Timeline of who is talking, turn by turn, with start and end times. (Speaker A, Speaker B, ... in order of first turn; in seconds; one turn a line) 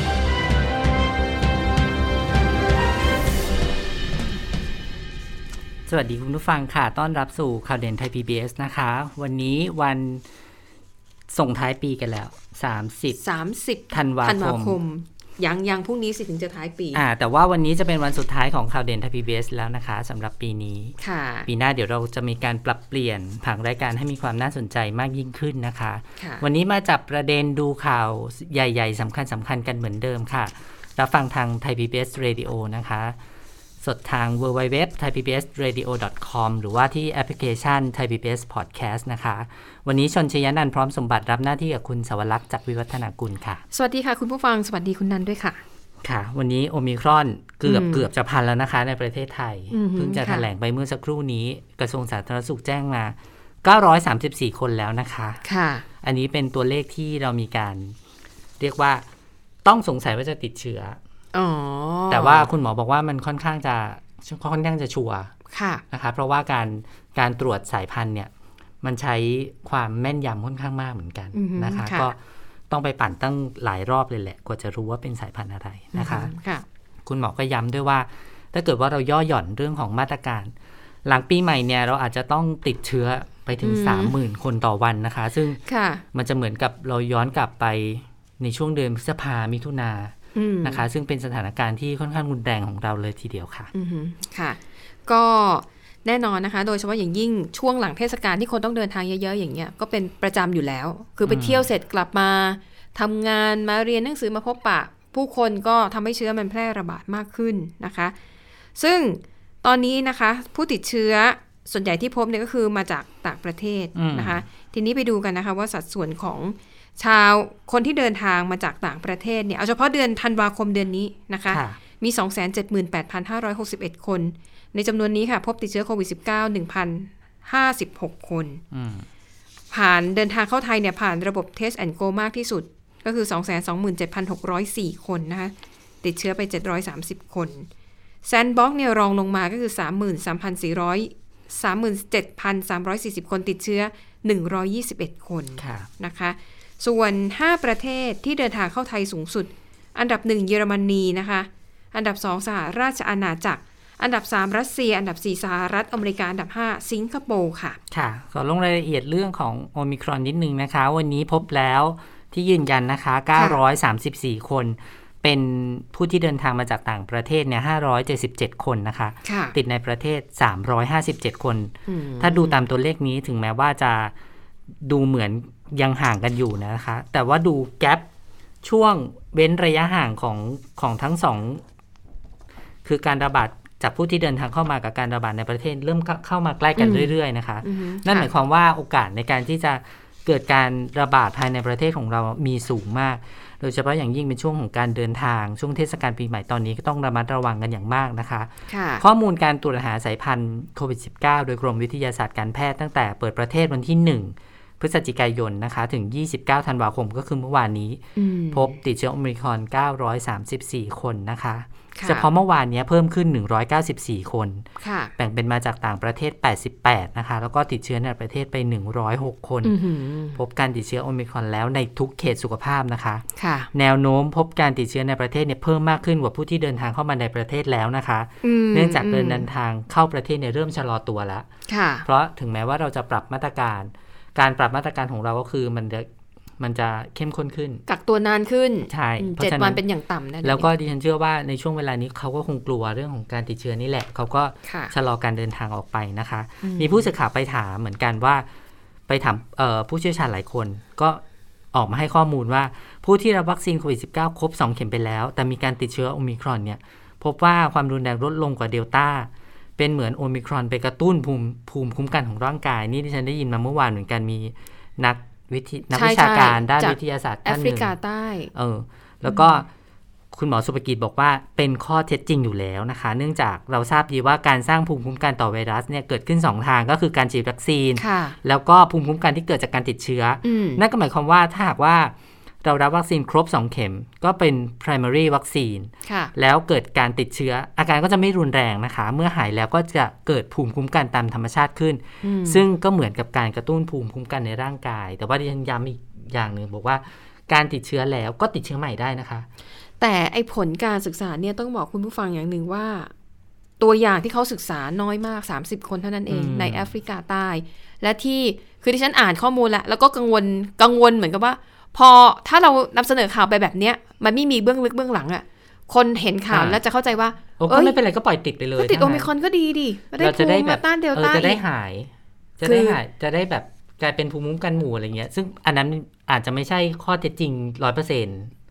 Speaker A: 5.9-10.2
Speaker A: 11.3-13.2
Speaker B: 13.2-17.0
Speaker A: 13.9-14.8
Speaker A: 16.9-21.0
Speaker B: 21.0-21.5
Speaker A: 21.5-33.2
Speaker B: 26.2-26.4
Speaker A: 33.8-43.6
Speaker B: 43.7-45.6
Speaker A: 46.0-55.4
Speaker B: 47.6-48.1
Speaker B: 49.7-50.5
Speaker B: 55.4-55.9
Speaker A: 56.0-58.0
Speaker A: 58.6-59.1
Speaker A: 59.6-61.0
Speaker B: 61.3-62.5
Speaker A: 62.1-65.3
Speaker B: 65.5-65.8
Speaker A: 65.9-68.3
Speaker A: 68.8-72.2
Speaker B: 71.3-72.1
Speaker A: 72.7-76.3
Speaker B: 75.9-76.7
Speaker A: 77.0-80.5
Speaker A: 81.0-85.6
Speaker B: 83.6-84.2
Speaker B: 85.7-86.0
Speaker A: 86.1-93.7
Speaker B: 90.3-90.8
Speaker B: 93.7-108.2
Speaker A: 101.2-101.7
Speaker B: 108.8-128.6
Speaker A: 114.0-114.4
Speaker A: 121.5-121.8
Speaker A: 128.7-129.1
Speaker B: 129.7-137.7
Speaker B: 138.2-157.8
Speaker A: 145.6-145.9
Speaker A: 157.9-174.1
Speaker B: 169.2-169.6
Speaker B: 171.9-172.7
Speaker A: 174.8-178.1
Speaker A: 178.6-181.6
Speaker A: 182.8-214.7
Speaker B: 186.8-187.1
Speaker B: 187.6-188.3
Speaker B: 198.7-199.0
Speaker B: 208.2-208.8
Speaker B: 211.9-212.3
Speaker B: 214.8-215.1
Speaker A: 215.2-219.8
Speaker B: 219.6-220.4
Speaker A: 220.3-231.5
Speaker B: 223.4-223.7
Speaker B: 228.4-229.5
Speaker B: 231.7-232.1
Speaker A: 232.1-236.1
Speaker A: 236.6-237.8
Speaker B: 237.9-240.7
Speaker A: 238.9-239.8
Speaker A: 240.4-248.5
Speaker B: 244.7-244.9
Speaker B: 246.6-247.1
Speaker A: 249.1-251.2
Speaker A: 251.7-267.9
Speaker B: 265.9-268.5
Speaker A: 268.5-269.7
Speaker B: 269.3-269.6
Speaker A: 270.3-299.5
Speaker B: 278.0-278.4
Speaker B: 280.4-280.8
Speaker B: 286.1-286.3
Speaker B: 292.2-292.6
Speaker B: 300.0-303.1
Speaker B: 303.8-318.0
Speaker A: 306.3-306.9
Speaker A: 316.5-316.8
Speaker A: 317.6-319.3
Speaker B: 318.8-321.6
Speaker A: 320.2-328.5
Speaker B: 322.6-323.0